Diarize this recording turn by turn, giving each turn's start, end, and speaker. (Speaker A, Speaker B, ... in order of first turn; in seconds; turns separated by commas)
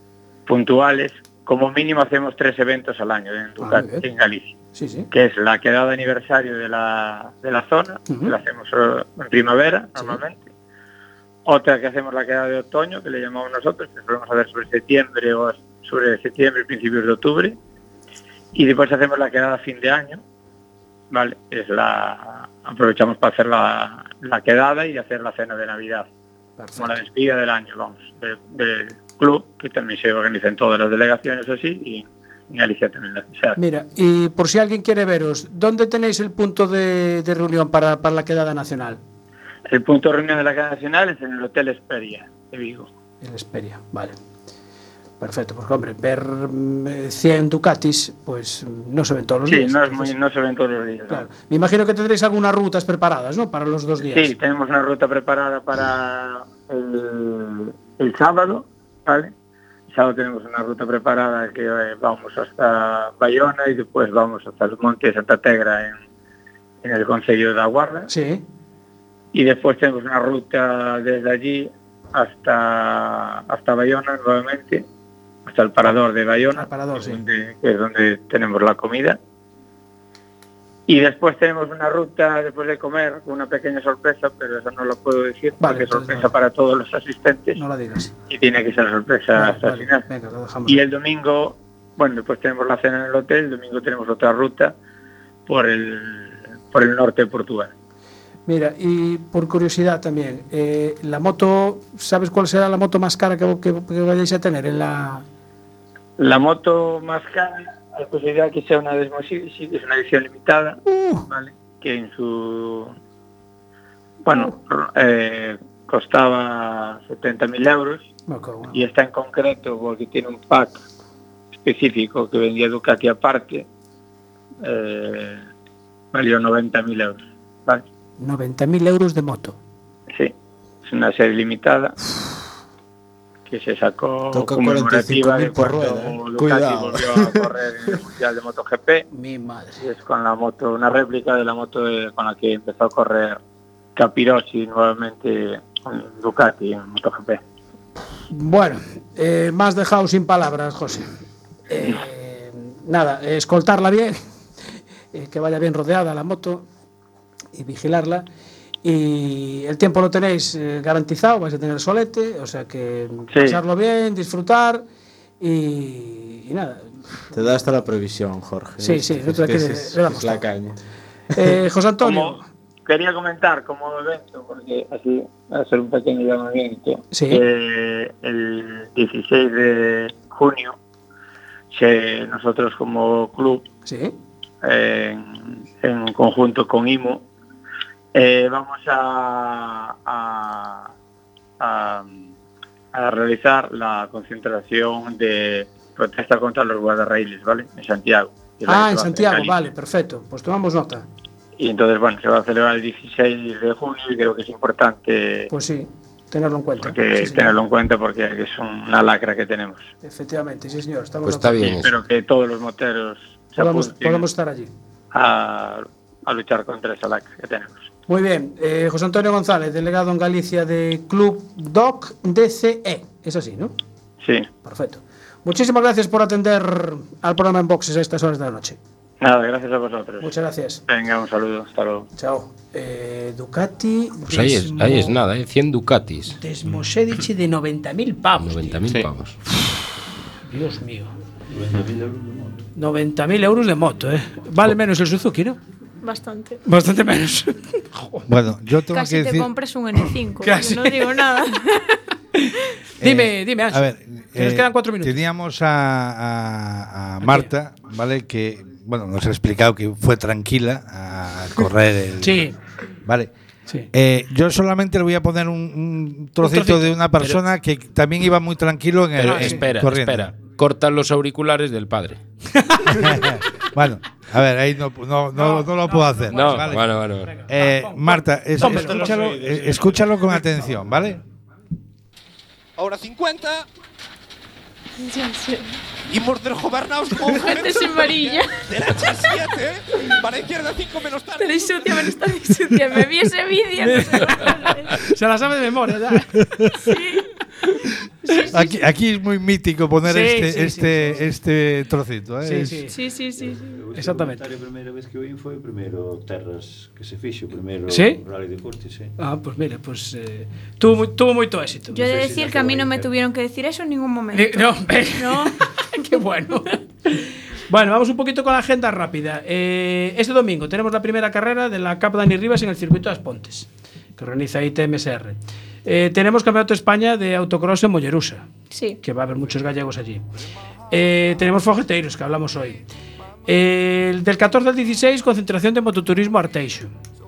Speaker A: 0.5-4.6, Speaker B: 3.6-4.0, Speaker B: 4.7-5.1, Speaker A: 5.1-10.4, Speaker B: 8.1-8.4, Speaker A: 11.4-17.6, Speaker A: 18.5-20.2, Speaker A: 21.1-26.1, Speaker B: 26.6-27.0, Speaker A: 26.8-33.6, Speaker B: 33.5-39.0, Speaker A: 39.7-42.9, Speaker B: 43.2-44.1, Speaker B: 45.2-50.1, Speaker A: 49.5-51.3, Speaker B: 51.1-54.3, Speaker A: 54.0-59.3, Speaker A: 59.9-66.0, Speaker A: 66.8-68.1, Speaker B: 68.1-68.4, Speaker A: 69.3-74.8, Speaker A: 75.5-79.2, Speaker B: 76.5-77.2, Speaker A: 80.9-87.6, Speaker B: 85.6-86.3, Speaker B: 87.5-88.1, Speaker A: 88.3-90.0, Speaker B: 89.3-90.8, Speaker A: 90.7-94.7, Speaker A: 95.5-97.7, Speaker B: 98.5-105.2, Speaker A: 106.2-112.9, Speaker B: 110.8-111.2, Speaker A: 114.2-118.1, Speaker B: 118.3-118.8, Speaker A: 118.7-120.8, Speaker A: 121.6-123.7, Speaker A: 124.6-125.4, Speaker A: 126.1-127.8, Speaker B: 128.2-129.6, Speaker A: 130.8-131.9, Speaker A: 133.5-139.1, Speaker C: 134.3-137.5, Speaker B: 139.1-139.8, Speaker A: 139.8-143.4, Speaker A: 143.9-147.4, Speaker B: 148.3-151.1, Speaker B: 151.7-154.2, Speaker B: 155.1-156.6, Speaker B: 157.5-158.2, Speaker B: 158.8-164.8, Speaker A: 163.3-163.6, Speaker B: 165.4-166.9, Speaker C: 167.3-170.8, Speaker B: 168.8-170.4, Speaker B: 171.3-172.4, Speaker A: 172.0-180.8, Speaker B: 177.1-177.4, Speaker A: 181.7-183.6, Speaker B: 183.8-184.1, Speaker A: 184.6-187.2, Speaker A: 188.1-190.9, Speaker A: 191.6-192.3, Speaker A: 192.9-199.6, Speaker B: 198.7-201.1, Speaker A: 201.6-205.5, Speaker B: 205.5-207.5, Speaker A: 206.8-209.9, Speaker B: 210.0-211.7, Speaker D: 211.2-211.9, Speaker A: 211.6-214.3, Speaker B: 213.6-214.7, Speaker A: 215.1-217.9, Speaker B: 218.1-223.7, Speaker A: 224.2-224.5, Speaker B: 224.6-228.8, Speaker A: 229.2-230.3, Speaker B: 230.2-230.8, Speaker A: 230.9-232.1, Speaker B: 232.2-235.2, Speaker D: 234.3-236.3, Speaker B: 236.4-238.8, Speaker D: 238.4-239.3, Speaker B: 240.4-241.1, Speaker E: 241.5-242.7, Speaker B: 242.8-245.6, Speaker F: 246.0-246.6, Speaker B: 246.7-248.3, Speaker G: 248.3-249.5, Speaker F: 248.9-251.9, Speaker B: 250.4-251.2, Speaker B: 252.3-255.2, Speaker G: 253.0-262.5, Speaker B: 257.2-257.5, Speaker B: 262.2-262.6, Speaker G: 263.0-263.3, Speaker G: 263.9-270.3, Speaker B: 266.4-266.9, Speaker D: 269.1-272.2, Speaker B: 269.2-269.7, Speaker B: 272.5-273.4, Speaker G: 272.9-281.2, Speaker B: 275.3-279.4, Speaker D: 276.3-277.4, Speaker C: 278.6-280.6, Speaker H: 282.8-283.6, Speaker F: 285.0-285.8, Speaker H: 286.1-292.2, Speaker F: 287.3-288.7, Speaker F: 291.4-295.0, Speaker B: 293.8-296.4, Speaker F: 296.7-297.3, Speaker F: 298.2-298.8, Speaker G: 298.5-302.8, Speaker B: 300.0-301.2, Speaker B: 302.4-303.0, Speaker F: 302.9-303.8, Speaker E: 303.4-309.1, Speaker B: 303.9-304.4, Speaker B: 307.9-308.2, Speaker B: 309.2-312.2, Speaker F: 311.9-316.2, Speaker E: 312.0-313.1, Speaker B: 314.3-328.5, Speaker F: 328.7-329.0, Speaker B: 329.0-330.2, Speaker B: 330.9-332.8, Speaker B: 333.5-336.9